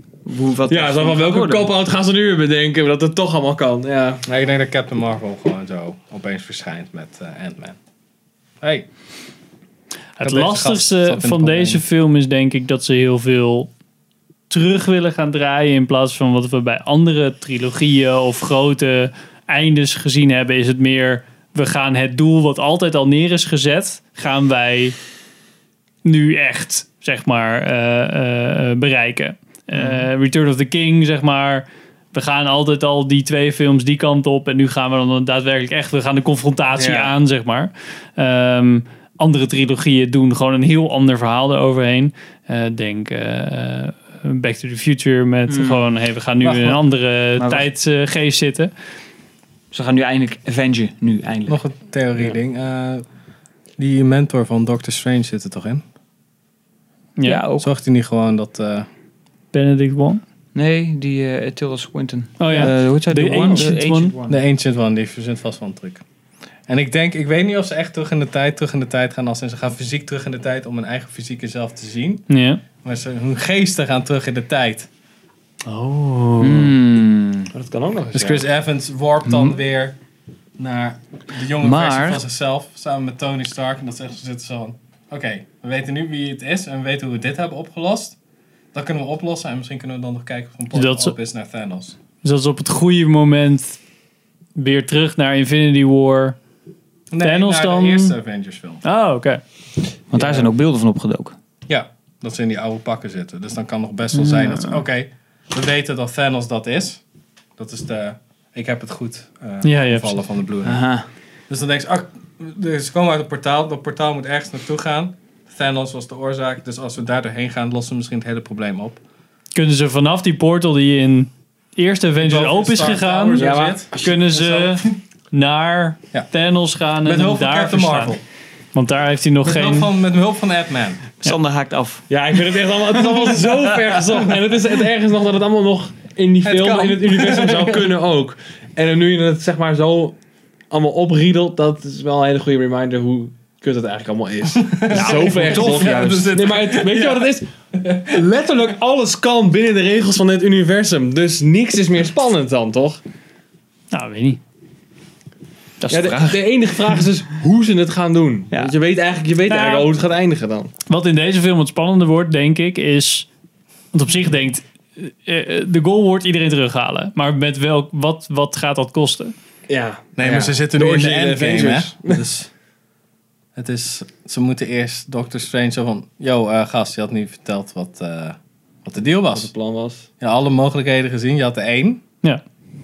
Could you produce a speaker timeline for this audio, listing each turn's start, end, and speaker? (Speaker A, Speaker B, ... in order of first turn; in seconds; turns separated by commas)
Speaker A: 0.2-1.7, Speaker B: 0.7-4.2, Speaker C: 4.2-7.8, Speaker C: 8.6-8.9, Speaker D: 10.2-13.7, Speaker C: 10.2-11.8, Speaker D: 14.5-24.9, Speaker D: 26.0-48.7, Speaker B: 36.8-37.1, Speaker A: 45.5-45.9, Speaker C: 46.5-46.7, Speaker A: 47.4-47.7, Speaker A: 49.7-51.6, Speaker C: 51.5-53.0, Speaker C: 53.8-55.8, Speaker D: 57.2-57.4, Speaker A: 57.2-57.7, Speaker C: 57.6-58.9, Speaker D: 59.5-60.2, Speaker A: 60.5-64.4, Speaker D: 62.4-64.1, Speaker C: 64.3-66.0, Speaker C: 66.7-72.3, Speaker D: 72.3-72.6, Speaker C: 72.8-74.9, Speaker D: 75.7-76.7, Speaker A: 76.4-77.5, Speaker B: 77.5-78.4, Speaker C: 78.1-80.0, Speaker A: 79.2-79.6, Speaker C: 80.6-88.2, Speaker A: 81.6-82.2, Speaker C: 88.7-92.0, Speaker D: 90.7-91.2, Speaker D: 92.2-93.8, Speaker D: 94.5-96.3, Speaker C: 97.1-98.8, Speaker D: 97.2-98.2, Speaker D: 98.8-99.4, Speaker A: 100.1-101.3, Speaker B: 100.1-100.5, Speaker C: 101.7-107.0, Speaker D: 104.1-104.8, Speaker C: 107.6-110.8, Speaker D: 109.6-110.2, Speaker A: 110.6-111.0, Speaker C: 111.5-119.0, Speaker D: 119.5-128.2, Speaker C: 122.2-124.7, Speaker B: 123.3-124.2, Speaker C: 127.0-128.2, Speaker D: 128.7-129.9, Speaker C: 129.4-131.0, Speaker A: 131.2-133.6, Speaker B: 132.1-140.2, Speaker C: 136.4-137.9, Speaker B: 140.7-147.5, Speaker C: 144.6-148.2, Speaker A: 144.9-146.6, Speaker B: 148.0-153.0, Speaker D: 153.9-154.4, Speaker A: 155.8-157.0, Speaker B: 155.9-160.7, Speaker D: 159.5-159.9, Speaker D: 160.9-163.3, Speaker D: 163.9-169.3, Speaker B: 169.7-172.2, Speaker C: 170.2-172.5, Speaker C: 173.5-179.5, Speaker B: 179.3-180.1, Speaker C: 180.2-182.0